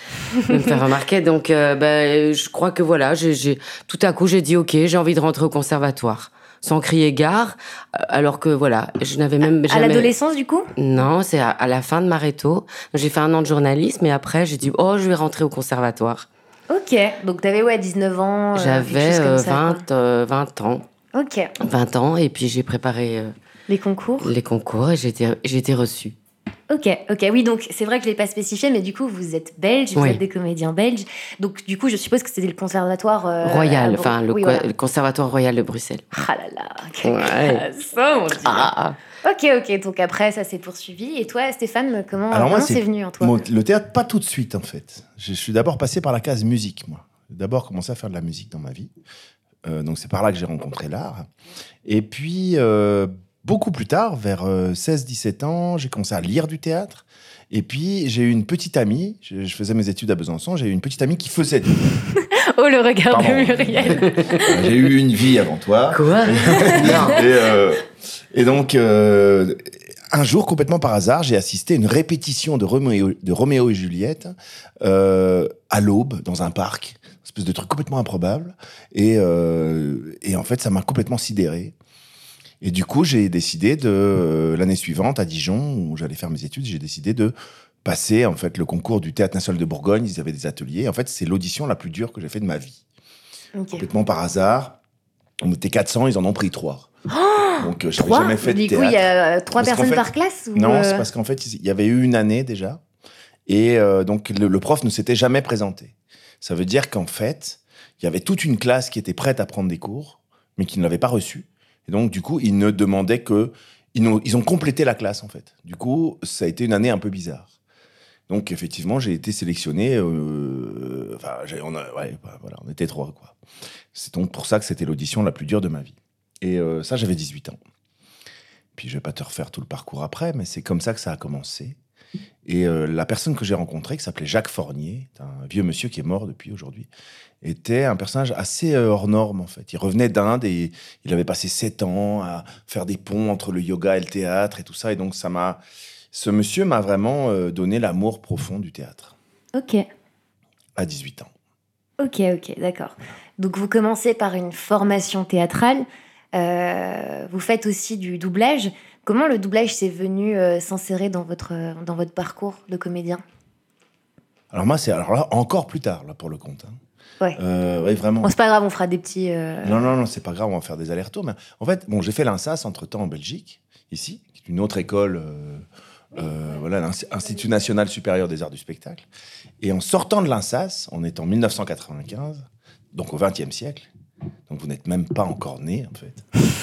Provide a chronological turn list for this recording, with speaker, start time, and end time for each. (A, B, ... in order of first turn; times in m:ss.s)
0:00.4-0:10.1 A
0:09.7-0:10.7 B
0:10.8-0:16.3 A
0:16.7-0:19.8 B
0:18.6-0:20.8 A
0:21.1-0:21.5 B
0:21.6-0:23.3 A
0:23.7-0:24.3 B
0:24.2-0:26.2 A
0:26.7-0:34.7 B
0:30.0-0:30.2 A
0:33.4-0:36.3 A
0:36.2-0:38.7 B
0:37.0-0:37.6 A
0:38.4-0:39.0 A
0:39.2-0:43.3 B
0:42.3-0:48.9 C
0:49.6-0:51.3 C
0:51.8-1:01.9 C
1:02.2-1:04.7 B
1:03.1-1:21.7 C
1:03.9-1:04.4 A
1:05.9-1:07.2 A
1:22.6-1:32.8 C
1:33.6-1:33.8 B
1:33.8-1:34.8 C
1:35.4-1:36.9 C
1:37.1-1:41.1 B
1:37.6-1:42.8 C
1:43.5-1:57.5 C
1:58.3-2:03.3 C
2:03.9-2:07.6 C
2:08.8-2:11.8 C
2:12.4-2:16.9 C
2:17.4-2:25.6 C
2:26.1-2:29.1 C
2:29.6-2:29.8 B
2:30.8-2:31.3 C
2:32.0-2:43.2 B
2:44.5-2:46.8 C
2:47.4-2:48.3 C
2:48.2-2:49.8 B
2:49.6-2:59.0 C
2:59.6-3:03.9 C
3:04.5-3:06.3 C